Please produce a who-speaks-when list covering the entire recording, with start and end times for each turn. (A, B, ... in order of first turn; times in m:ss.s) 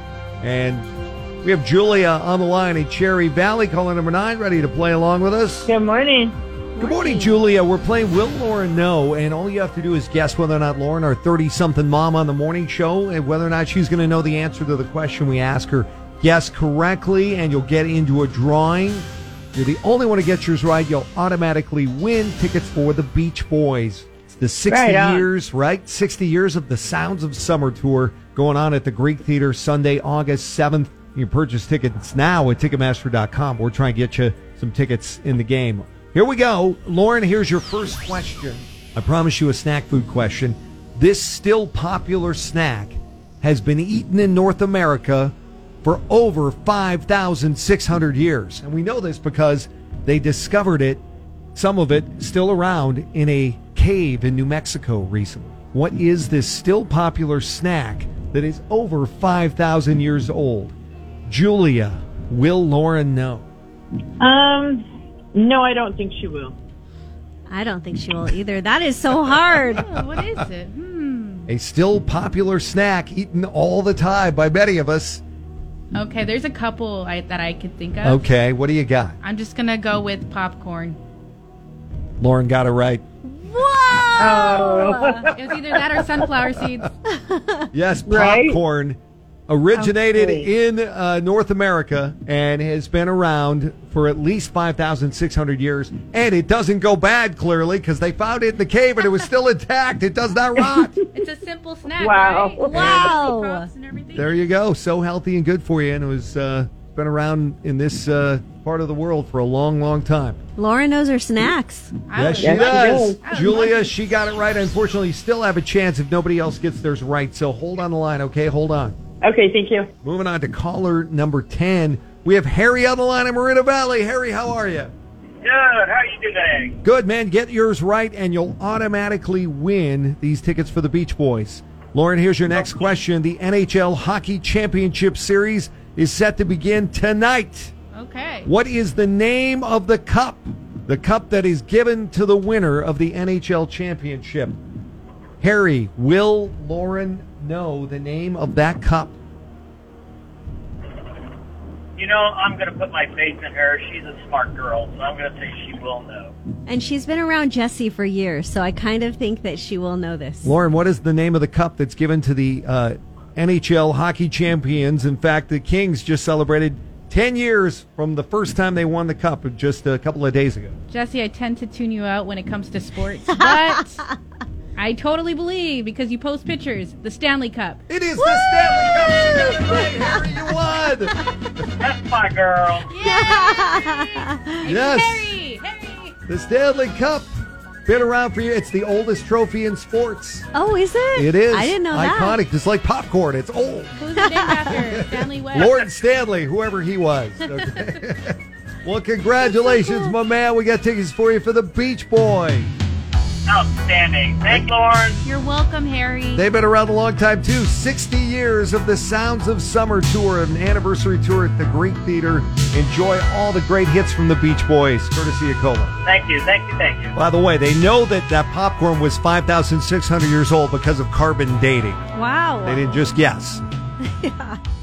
0:00.4-0:00.9 A
0:01.4-0:05.7 A
0:05.7-0:06.4 B
0:06.8-0:07.4 C
0:06.8-0:51.0 A
0:24.7-0:25.2 B
0:51.6-1:00.8 A
1:01.3-1:03.5 A
1:04.2-1:06.6 B
1:07.5-1:09.8 C
1:09.7-1:11.5 D
1:11.5-1:15.2 A
1:15.9-1:18.3 D
1:18.0-1:19.2 A
1:19.2-1:21.0 D
1:22.2-1:23.0 A
1:23.2-1:25.3 C
1:24.2-1:25.3 B
1:25.3-1:26.9 D
1:27.1-1:27.6 C
1:27.7-1:41.0 A
1:28.1-1:28.6 B
1:29.8-1:30.5 B
1:41.1-1:44.4 D
1:42.0-1:42.7 B
1:42.7-1:43.7 C
1:42.7-1:43.1 A
1:44.2-1:50.4 A
1:50.6-1:52.0 C
1:52.1-1:53.9 D
1:52.2-1:59.0 A
1:52.4-1:53.2 B
1:59.2-1:59.9 B
2:00.0-2:04.9 A
2:05.4-2:06.8 E
2:06.8-2:17.7 A
2:17.9-2:18.5 D
2:18.5-2:24.6 A
2:25.4-2:29.2 A
2:32.0-2:36.3 E
2:36.7-2:40.6 C
2:40.4-2:50.8 A
2:50.9-2:54.0 D
2:53.3-2:54.2 C
2:54.8-2:57.8 D
2:57.9-3:01.2 A
2:58.2-3:00.5 C
3:01.8-3:02.9 E
3:02.9-3:06.2 D
3:03.0-3:04.6 C
3:04.6-3:05.3 A
3:06.3-3:07.3 A
3:07.9-3:10.5 A
3:10.5-3:12.4 C
3:11.2-3:14.0 A
3:14.0-3:15.9 D
3:14.2-3:14.8 C
3:14.7-3:22.7 A
3:19.4-3:20.2 C
3:23.5-3:25.2 E
3:25.2-3:26.4 D
3:26.3-3:35.9 A
3:36.0-3:37.1 E
3:37.1-3:42.0 A
3:42.1-3:43.0 C
3:42.6-3:43.6 A
3:44.0-3:44.6 C